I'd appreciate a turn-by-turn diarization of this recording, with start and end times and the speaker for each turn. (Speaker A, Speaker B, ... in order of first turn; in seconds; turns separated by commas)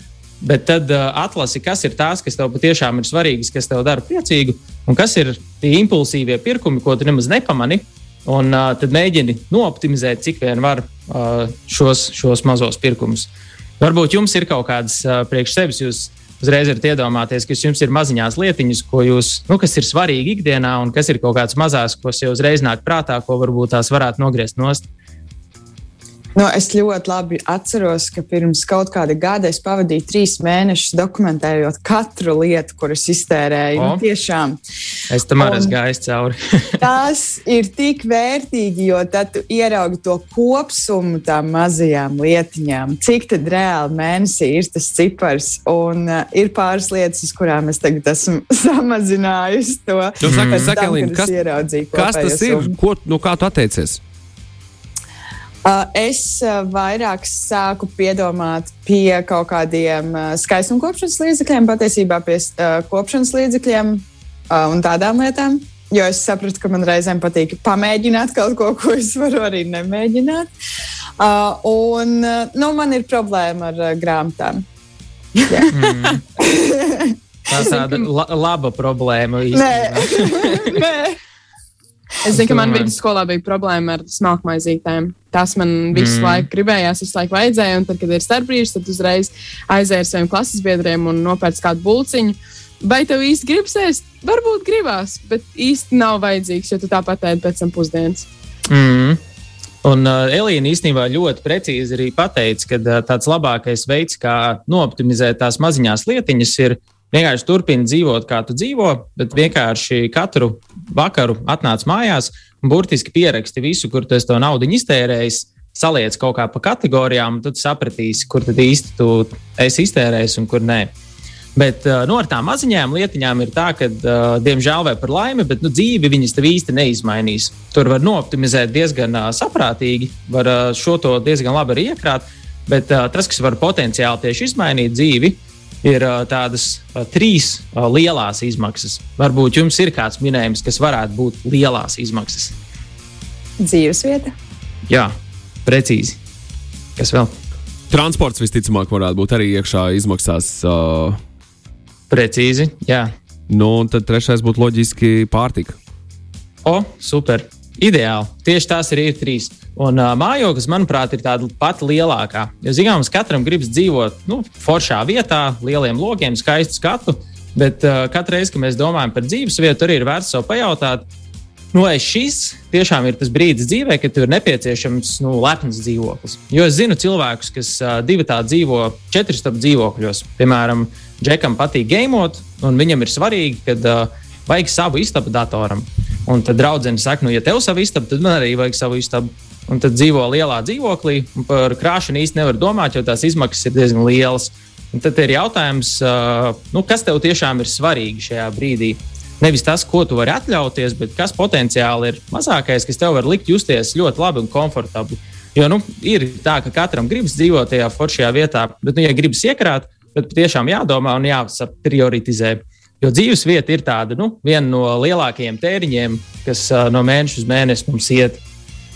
Speaker A: 0.4-24.8, Speaker B: 26.4-34.6, Speaker A: 33.7-34.0, Speaker A: 35.1-36.8, Speaker B: 35.4-35.7, Speaker B: 36.8-52.8, Speaker C: 50.2-54.0, Speaker A: 50.2-50.7, Speaker B: 55.6-70.5, Speaker B: 71.2-74.6, Speaker B: 75.3-77.8, Speaker A: 75.7-76.2, Speaker A: 77.5-80.8, Speaker B: 79.5-81.2, Speaker D: 82.3-98.3, Speaker A: 82.3-82.9, Speaker A: 85.9-86.5, Speaker A: 98.7-99.2, Speaker A: 99.8-120.9, Speaker A: 121.5-142.5, Speaker B: 143.6-144.3, Speaker A: 145.6-146.2, Speaker A: 146.9-147.3, Speaker C: 147.9-151.2, Speaker A: 152.1-153.1, Speaker C: 153.5-155.8, Speaker A: 156.6-171.1, Speaker A: 171.7-218.4